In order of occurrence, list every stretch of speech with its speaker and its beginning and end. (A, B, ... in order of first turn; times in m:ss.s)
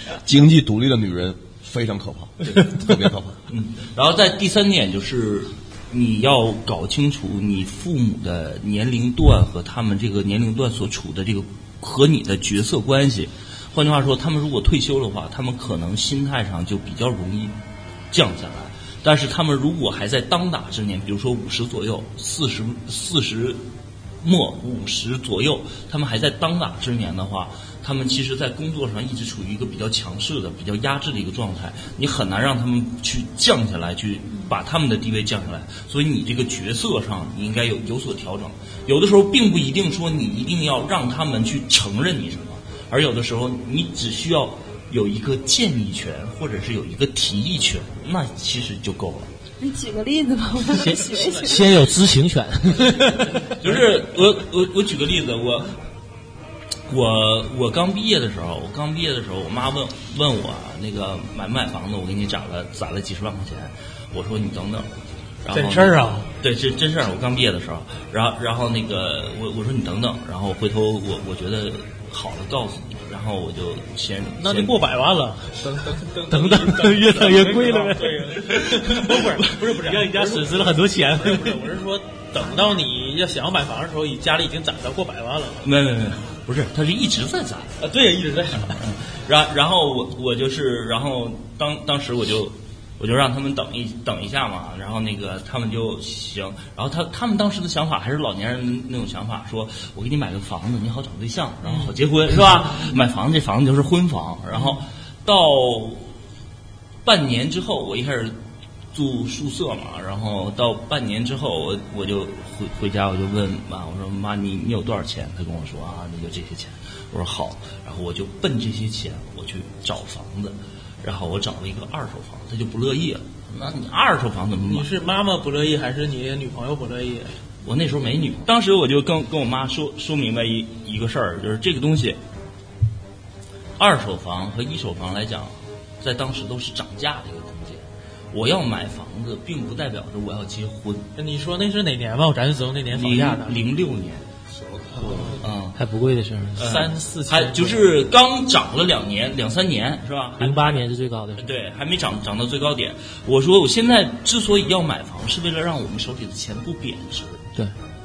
0:00.2-0:03.4 A
0:03.5-0:17.6 B
0:18.1-0:23.6 B
0:24.2-0:49.3 B
0:49.6-0:51.8 C
0:50.8-0:53.3 D
0:51.2-0:51.8 E
0:52.7-0:53.9 E
0:53.6-0:55.8 B
0:56.9-1:04.9 B
1:05.4-1:14.9 B
1:05.5-1:06.3 E
1:14.4-1:25.7 E
1:16.3-1:18.3 D
1:18.5-1:19.7 B
1:19.9-1:21.7 D
1:25.6-1:27.8 B
1:27.8-1:28.8 E
1:28.6-1:46.1 B
1:44.6-1:44.8 E
1:47.0-1:48.4 B
1:48.9-2:04.9 B
2:04.6-2:07.3 E
2:07.6-2:12.2 B
2:13.8-2:21.1 B
2:21.2-2:23.6 E
2:22.9-2:24.3 B
2:24.5-2:25.4 A
2:25.0-2:25.4 E
2:25.4-2:25.8 B
2:25.8-2:26.7 D
2:26.6-2:27.9 E
2:26.6-2:37.4 B
2:30.4-2:31.5 D